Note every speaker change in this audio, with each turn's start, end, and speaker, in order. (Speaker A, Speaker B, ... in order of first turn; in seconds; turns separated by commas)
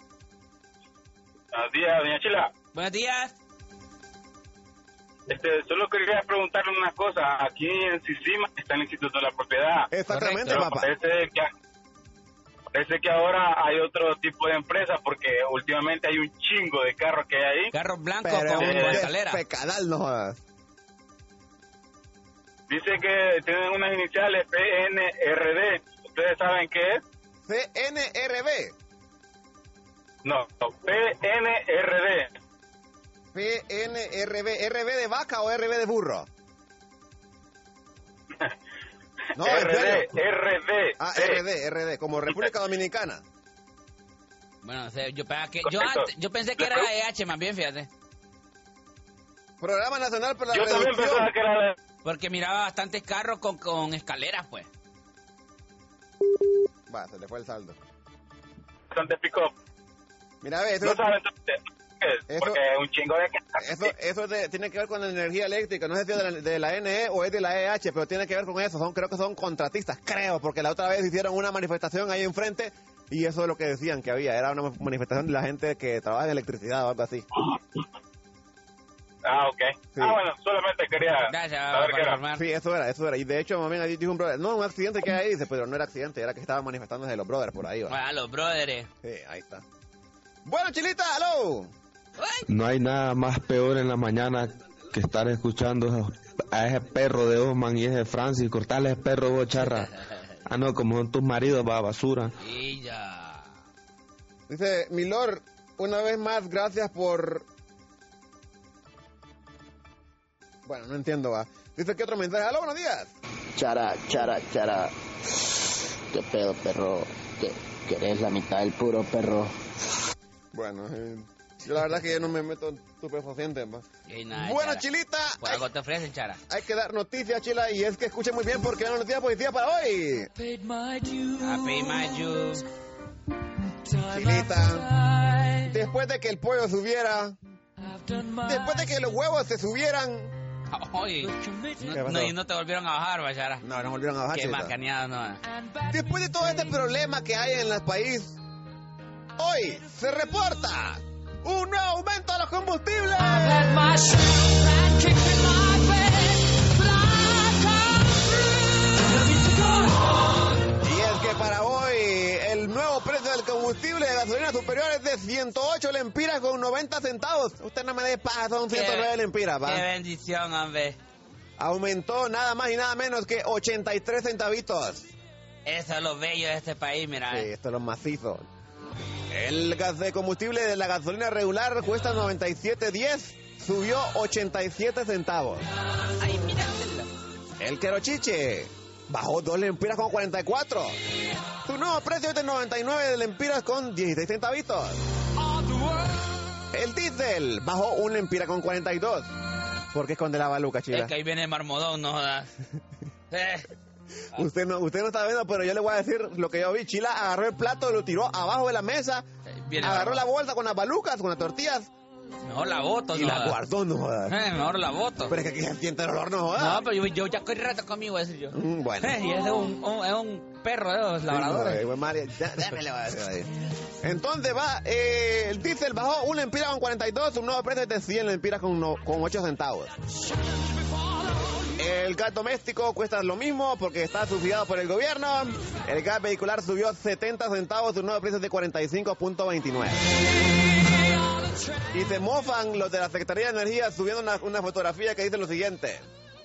Speaker A: 1.5-2.5, Speaker B: 2.7-3.3, Speaker A: 5.3-9.9, Speaker C: 9.9-10.9, Speaker B: 10.1-10.7, Speaker A: 10.5-11.5, Speaker A: 12.7-17.7, Speaker B: 17.7-19.4, Speaker C: 18.2-20.4, Speaker A: 18.6-19.0, Speaker A: 22.7-27.0, Speaker C: 27.5-28.8, Speaker A: 30.2-32.3, Speaker C: 33.3-36.3, Speaker C: 39.4-40.1, Speaker A: 39.4-41.4, Speaker C: 41.0-43.2, Speaker B: 44.6-47.9, Speaker A: 45.7-46.1, Speaker A: 46.6-46.9, Speaker C: 49.6-51.3, Speaker A: 50.5-51.8, Speaker B: 52.0-54.7, Speaker C: 56.9-57.8, Speaker A: 58.9-59.5, Speaker C: 60.4-61.1, Speaker A: 60.8-63.9, Speaker C: 62.3-62.6, Speaker C: 63.6-77.3, Speaker A: 79.2-82.2, Speaker B: 81.3-82.4, Speaker C: 82.3-88.0, Speaker B: 87.9-88.9, Speaker C: 89.0-89.6, Speaker C: 90.5-91.7, Speaker B: 92.2-92.5, Speaker D: 92.5-99.9, Speaker D: 100.5-102.3, Speaker B: 102.4-103.5, Speaker C: 104.5-107.5, Speaker C: 110.7-113.1, Speaker E: 113.6-114.9, Speaker E: 116.1-119.5, Speaker C: 120.5-123.8, Speaker B: 124.1-124.8, Speaker C: 124.4-125.6, Speaker B: 125.4-126.4, Speaker C: 126.5-130.3, Speaker B: 131.3-132.6, Speaker C: 134.1-134.9, Speaker C: 135.6-137.4, Speaker C: 138.4-140.3, Speaker B: 140.7-143.6, Speaker C: 141.9-142.3, Speaker C: 143.6-144.8, Speaker B: 144.3-145.4, Speaker C: 145.9-148.4, Speaker C: 149.4-153.8, Speaker C: 160.8-169.9, Speaker B: 168.7-171.0, Speaker C: 171.6-175.1, Speaker B: 175.7-177.5, Speaker C: 177.3-178.5, Speaker C: 179.3-185.6, Speaker B: 186.2-187.1, Speaker C: 187.6-191.0, Speaker C: 191.7-195.0, Speaker C: 196.7-199.3, Speaker C: 199.9-201.1, Speaker B: 200.9-202.5, Speaker B: 203.3-203.7, Speaker C: 204.3-209.2, Speaker B: 209.5-210.2, Speaker C: 209.8-211.9, Speaker B: 212.4-213.6, Speaker C: 213.1-214.4, Speaker B: 214.3-215.3, Speaker C: 215.3-216.8, Speaker B: 216.6-221.8, Speaker C: 218.5-219.2, Speaker C: 221.3-229.9, Speaker C: 231.8-240.1, Speaker C: 241.9-246.1